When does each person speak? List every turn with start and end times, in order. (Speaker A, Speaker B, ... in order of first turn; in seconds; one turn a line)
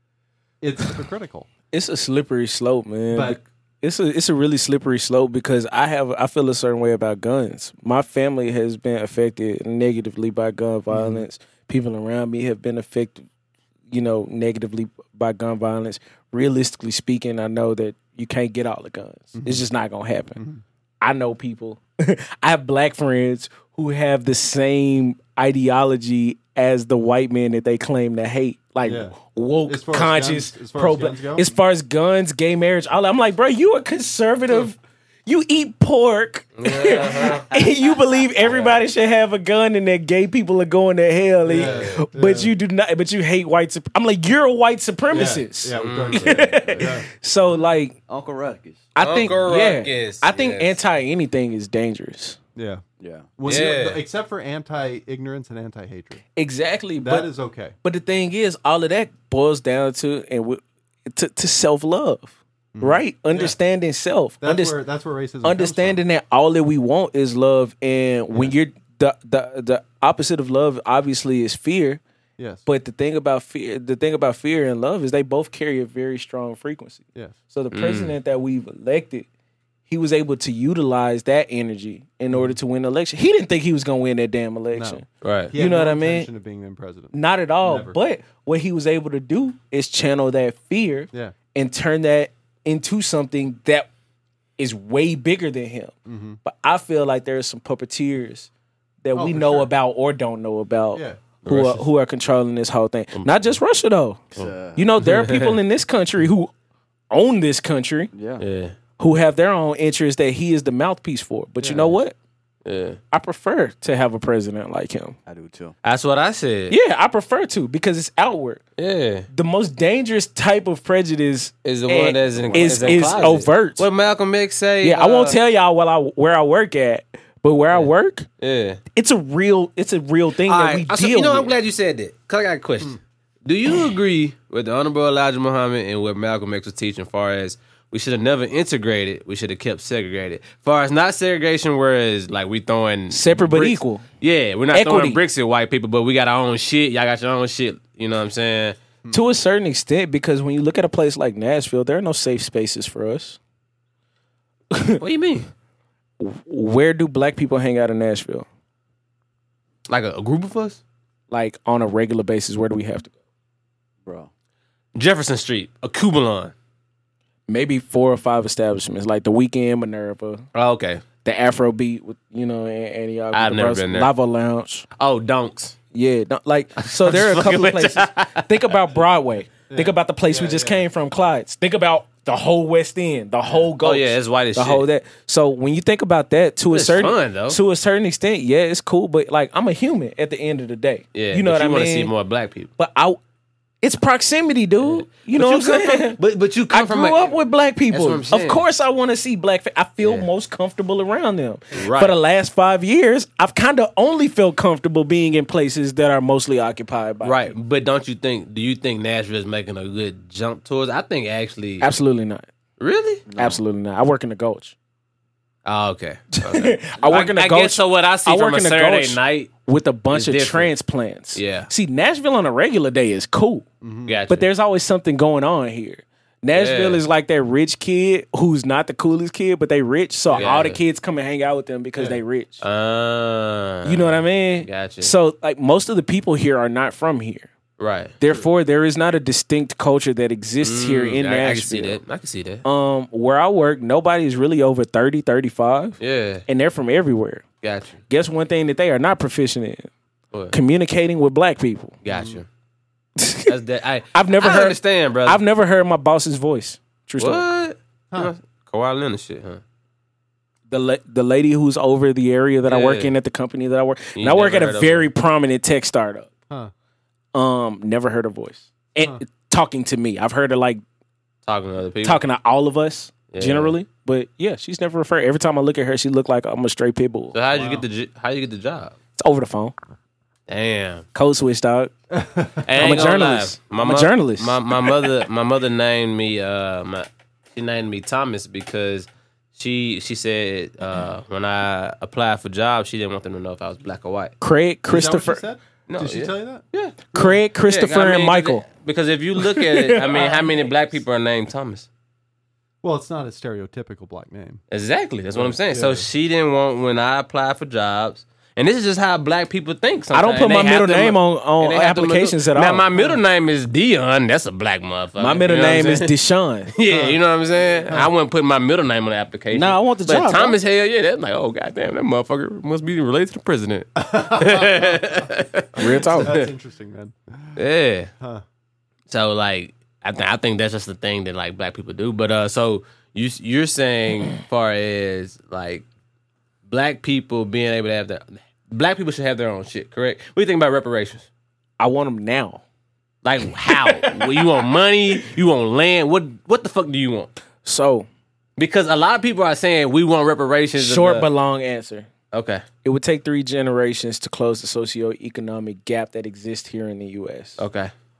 Speaker A: 0.6-1.5
Speaker B: 1.7-13.2
Speaker A: 3.1-3.4
Speaker A: 10.9-11.2
Speaker B: 13.9-20.4
Speaker A: 19.3-19.6
Speaker A: 20.4-20.6
Speaker B: 21.0-48.0
Speaker A: 28.8-31.5
Speaker C: 36.6-37.5
Speaker C: 38.4-38.8
Speaker A: 41.4-42.5
Speaker C: 41.5-42.0
Speaker A: 45.1-47.1
Speaker C: 45.7-46.3
Speaker D: 46.1-46.9
Speaker D: 48.1-48.9
Speaker B: 48.9-52.4
Speaker C: 49.0-50.8
Speaker A: 52.5-52.8
Speaker D: 53.0-53.3
Speaker A: 53.4-56.2
Speaker C: 53.5-54.0
Speaker B: 56.4-57.3
Speaker A: 57.0-57.8
Speaker B: 57.8-64.8
Speaker A: 62.7-63.5
Speaker A: 64.4-66.0
Speaker B: 65.4-72.0
Speaker A: 72.4-72.6
Speaker B: 72.7-79.3
Speaker C: 77.7-78.1
Speaker B: 79.9-86.3
Speaker A: 82.3-82.6
Speaker A: 84.7-88.0
Speaker C: 85.2-85.5
Speaker B: 87.1-93.9
Speaker B: 94.6-95.9
Speaker A: 96.0-96.4
Speaker B: 96.4-98.5
Speaker B: 99.0-104.2
Speaker A: 99.1-99.7
Speaker A: 100.9-101.3
Speaker C: 101.5-101.8
Speaker C: 103.1-103.5
Speaker D: 104.3-104.8
Speaker C: 104.3-105.6
Speaker B: 104.8-106.5
Speaker B: 107.1-108.1
Speaker D: 108.1-108.4
Speaker C: 108.4-108.7
Speaker B: 109.0-112.1
Speaker D: 111.6-111.9
Speaker C: 112.6-113.0
Speaker B: 113.1-115.2
Speaker D: 115.2-115.8
Speaker C: 115.8-116.8
Speaker B: 116.7-118.6
Speaker C: 118.8-119.3
Speaker B: 119.3-123.9
Speaker C: 121.6-125.3
Speaker D: 122.3-123.4
Speaker B: 124.8-128.3
Speaker C: 128.4-128.8
Speaker B: 128.9-131.5
Speaker C: 130.4-148.8
Speaker B: 143.1-144.0
Speaker B: 144.7-145.2
Speaker B: 149.1-153.4
Speaker B: 154.7-155.0
Speaker C: 155.0-155.5
Speaker B: 156.2-158.4
Speaker C: 159.9-160.8
Speaker B: 161.3-163.1
Speaker D: 164.0-164.3
Speaker C: 164.9-166.5
Speaker B: 167.5-170.4
Speaker C: 170.5-171.0
Speaker B: 171.2-174.9
Speaker C: 173.3-174.1
Speaker C: 175.0-175.8
Speaker B: 175.9-192.1
Speaker C: 176.9-178.6
Speaker A: 179.7-180.8
Speaker C: 183.6-184.8
Speaker C: 186.7-187.6
Speaker C: 191.1-192.7
Speaker B: 192.8-193.2
Speaker B: 193.8-196.2
Speaker C: 194.8-197.4
Speaker B: 196.7-207.5
Speaker C: 197.9-198.6
Speaker C: 200.0-200.3
Speaker C: 201.7-202.1
Speaker C: 207.2-211.9
Speaker B: 211.8-212.5
Speaker C: 212.8-213.2
Speaker D: 213.2-213.6
Speaker B: 213.3-214.7
Speaker C: 215.6-219.6
Speaker B: 216.3-223.6
Speaker C: 220.1-220.7
Speaker C: 221.3-221.7
Speaker A: 223.8-224.2
Speaker C: 224.1-224.4
Speaker B: 224.3-232.6
Speaker C: 226.5-227.0
Speaker C: 230.3-230.8
Speaker C: 232.0-235.1
Speaker B: 233.8-237.5
Speaker C: 237.8-238.1
Speaker B: 238.2-242.0
Speaker C: 240.6-242.6
Speaker B: 242.6-247.4
Speaker C: 246.0-246.4
Speaker C: 247.6-248.0
Speaker B: 248.1-249.9
Speaker B: 250.5-251.9
Speaker C: 252.0-252.4
Speaker A: 252.1-252.4
Speaker B: 253.2-253.5
Speaker C: 253.4-255.4
Speaker B: 254.1-257.4
Speaker C: 257.2-259.6
Speaker B: 260.7-266.3
Speaker C: 262.6-263.1
Speaker C: 264.1-265.1
Speaker B: 267.3-270.8
Speaker C: 271.4-272.2
Speaker B: 272.0-277.3
Speaker C: 273.3-273.7
Speaker C: 277.3-278.9
Speaker A: 277.5-277.8
Speaker B: 279.1-279.7
Speaker C: 280.5-281.1
Speaker B: 281.1-281.9
Speaker A: 282.1-283.0
Speaker C: 282.6-294.3
Speaker B: 282.8-284.9
Speaker B: 294.4-295.4
Speaker A: 294.9-296.6
Speaker C: 295.9-301.9
Speaker B: 297.1-298.6
Speaker B: 299.4-300.2
Speaker A: 300.1-300.7
Speaker A: 302.8-304.6
Speaker C: 304.7-316.1
Speaker A: 305.3-306.1
Speaker B: 310.1-312.9
Speaker A: 312.9-313.2
Speaker B: 315.2-316.7
Speaker C: 316.7-326.5
Speaker A: 316.9-317.2
Speaker B: 319.5-320.6
Speaker A: 323.9-327.6
Speaker B: 325.8-326.4
Speaker C: 327.6-328.1
Speaker A: 328.2-328.4
Speaker C: 329.1-335.8
Speaker C: 336.7-341.3
Speaker B: 341.8-342.6
Speaker C: 343.2-347.3
Speaker B: 343.6-344.4
Speaker B: 347.6-348.1
Speaker C: 348.6-351.3
Speaker B: 350.8-352.1
Speaker C: 352.3-352.6
Speaker B: 352.8-357.6
Speaker C: 357.6-357.9